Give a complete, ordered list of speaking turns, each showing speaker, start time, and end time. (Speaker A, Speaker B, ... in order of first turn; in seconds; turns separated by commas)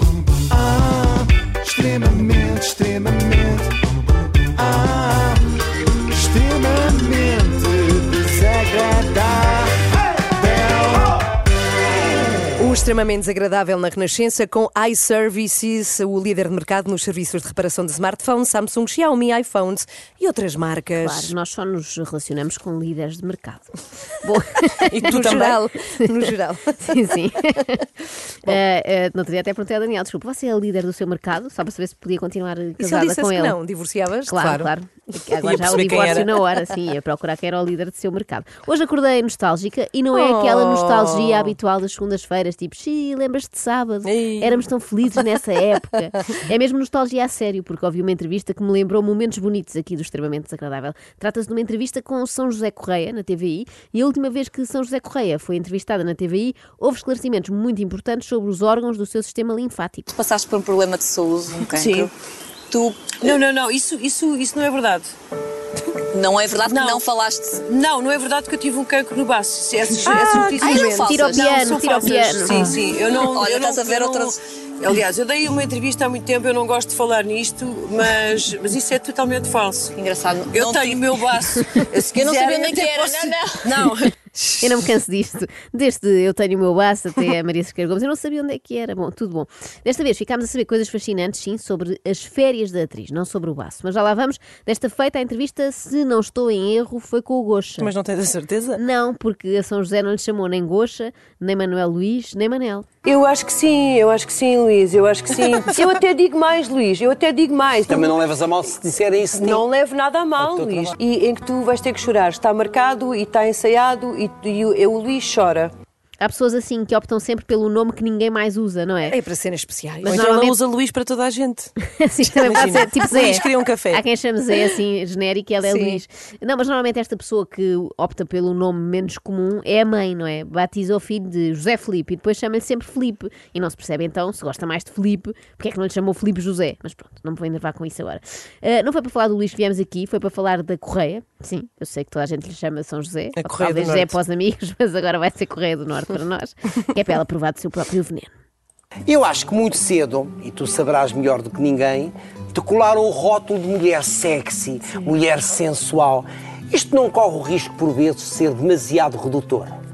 Speaker A: 0.3-3.8, Speaker A: 4.6-5.4, Speaker A: 6.1-9.8, Speaker A: 10.3-11.2, Speaker B: 12.6-21.3, Speaker C: 21.0-25.1, Speaker D: 24.9-25.6, Speaker B: 25.1-27.1, Speaker C: 26.0-33.6, Speaker B: 32.8-34.7, Speaker C: 34.3-60.1, Speaker D: 35.4-36.3, Speaker B: 40.1-41.5, Speaker B: 44.0-44.7, Speaker E: 60.1-62.1, Speaker F: 61.7-62.1, Speaker E: 62.7-63.0, Speaker F: 63.1-65.1, Speaker E: 66.1-67.6, Speaker F: 66.7-67.1, Speaker F: 67.7-80.0, Speaker E: 70.1-74.3, Speaker C: 70.7-72.8, Speaker E: 80.0-81.2, Speaker F: 80.5-84.2, Speaker E: 81.9-83.6, Speaker C: 84.6-97.9, Speaker D: 97.8-98.8, Speaker C: 98.8-102.9, Speaker F: 103.0-108.1, Speaker G: 107.9-109.6, Speaker F: 109.3-115.7, Speaker G: 110.4-110.9, Speaker C: 116.2-119.2, Speaker B: 119.1-120.2, Speaker D: 120.0-121.7, Speaker C: 120.1-120.6, Speaker C: 121.9-148.3, Speaker D: 122.3-124.0, Speaker B: 125.6-126.0, Speaker D: 143.4-144.2, Speaker G: 149.1-159.7